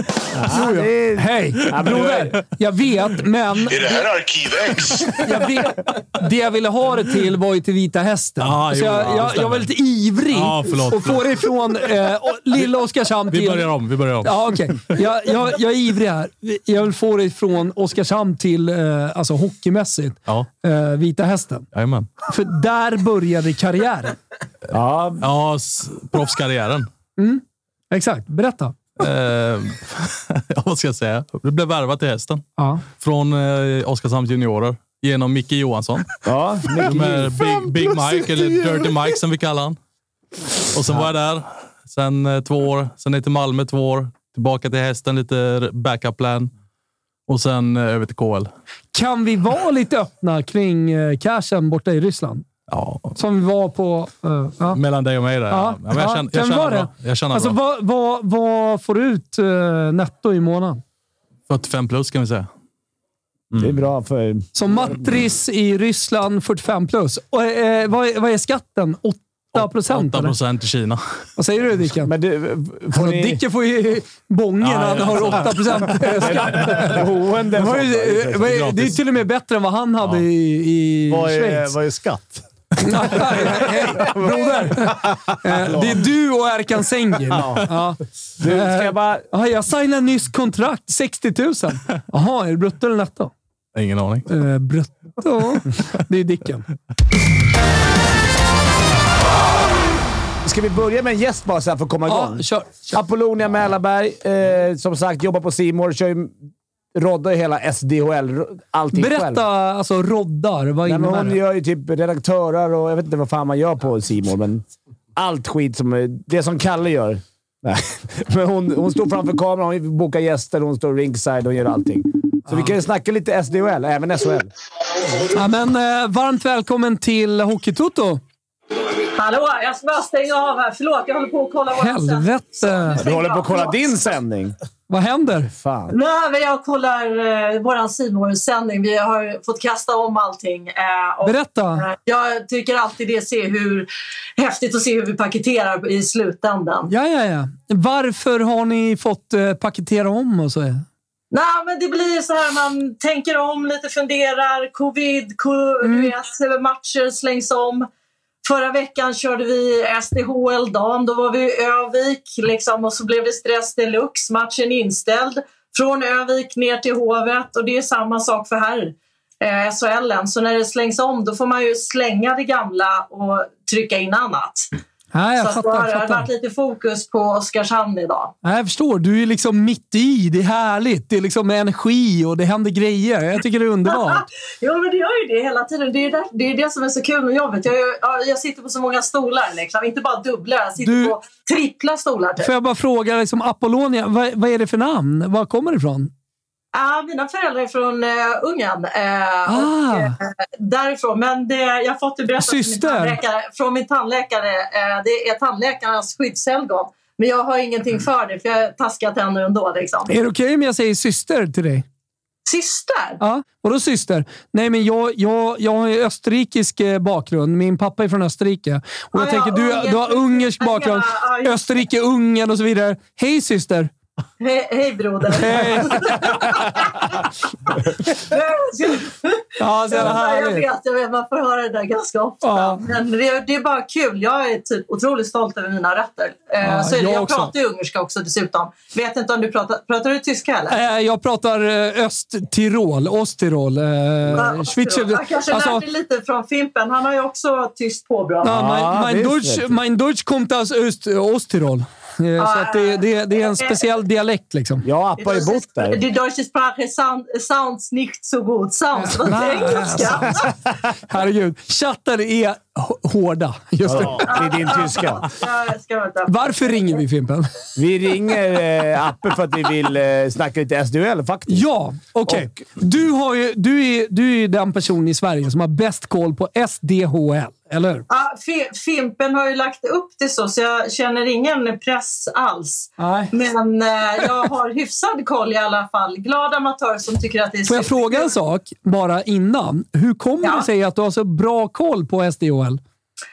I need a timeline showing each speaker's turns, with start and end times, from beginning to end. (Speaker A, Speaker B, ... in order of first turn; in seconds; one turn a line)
Speaker A: 0.3-2.4
Speaker B: 0.5-4.0
Speaker B: 5.2-21.7
Speaker C: 8.4-9.7
Speaker C: 10.3-11.3
Speaker C: 13.3-14.4
Speaker C: 21.7-22.1
Speaker B: 22.3-24.1
Speaker A: 24.7-25.2
Speaker C: 25.2-26.9
Speaker B: 27.2-28.8
Speaker C: 29.0-36.1
Speaker A: 36.2-37.6
Speaker C: 36.8-39.8
Speaker C: 40.7-46.5
Speaker C: 47.3-48.5
Speaker B: 48.9-52.5
Speaker C: 52.7-53.1
Speaker B: 53.1-54.8
Speaker C: 54.7-57.5
Speaker B: 55.5-60.8
Speaker C: 61.5-62.5
Speaker D: 63.5-63.8
Speaker A: 63.6-65.0
Speaker B: 64.5-70.3
Speaker C: 69.5-71.0
Speaker B: 71.4-72.1
Speaker A: 71.9-73.4
Speaker B: 72.9-77.0
Speaker C: 74.6-76.4
Speaker A: 76.2-78.7
Speaker B: 77.5-81.8
Speaker C: 78.6-78.9
Speaker D: 81.1-84.1
Speaker B: 82.8-93.3
Speaker D: 84.9-86.0
Speaker D: 87.3-87.6
Speaker A: 88.4-89.3
Speaker C: 93.7-94.2
Speaker B: 94.3-96.7
Speaker A: 100.4-106.3
Speaker B: 102.1-103.0
Speaker A: 106.9-109.4
Speaker B: 108.9-111.4
Speaker A: 110.8-114.6
Speaker A: 115.2-124.5
Speaker B: 125.2-128.2
Speaker E: 129.1-133.8
Speaker B: 131.8-133.0
Speaker A: 133.0-134.5
Speaker B: 134.9-135.5
Speaker A: 135.4-135.9
Speaker E: 135.9-146.9
Speaker B: 141.2-141.8
Speaker B: 146.9-150.8
Speaker E: 151.3-157.9
Speaker B: 155.8-156.1
Speaker E: 158.4-174.7
Speaker B: 175.1-176.3
Speaker E: 175.4-178.3
Speaker B: 178.4-184.2
Speaker E: 183.9-192.5
Speaker B: 190.8-191.1
Speaker B: 192.4-196.1
Speaker E: 196.7-210.1
Speaker B: 199.5-200.2
Speaker B: 202.4-203.2
Speaker B: 210.1-211.8
Speaker E: 212.4-213.2
Speaker B: 213.2-223.9
Speaker E: 219.1-221.7
Speaker E: 224.4-240.8
Speaker B: 225.3-226.6
Speaker B: 229.6-230.6
Speaker B: 232.4-232.8
Speaker B: 236.6-237.5
Speaker B: 240.7-245.8
Speaker E: 244.4-248.5
Speaker B: 248.4-254.8
Speaker A: 248.4-249.7
Speaker E: 252.4-253.8
Speaker A: 254.8-256.0
Speaker E: 255.2-260.5
Speaker B: 259.0-260.5
Speaker B: 261.1-264.4
Speaker A: 263.8-265.2
Speaker E: 264.3-266.4
Speaker B: 266.3-267.5
Speaker A: 267.8-271.7
Speaker B: 271.5-278.1
Speaker A: 272.2-272.6
Speaker E: 278.1-288.3
Speaker B: 283.0-283.3
Speaker B: 287.7-292.8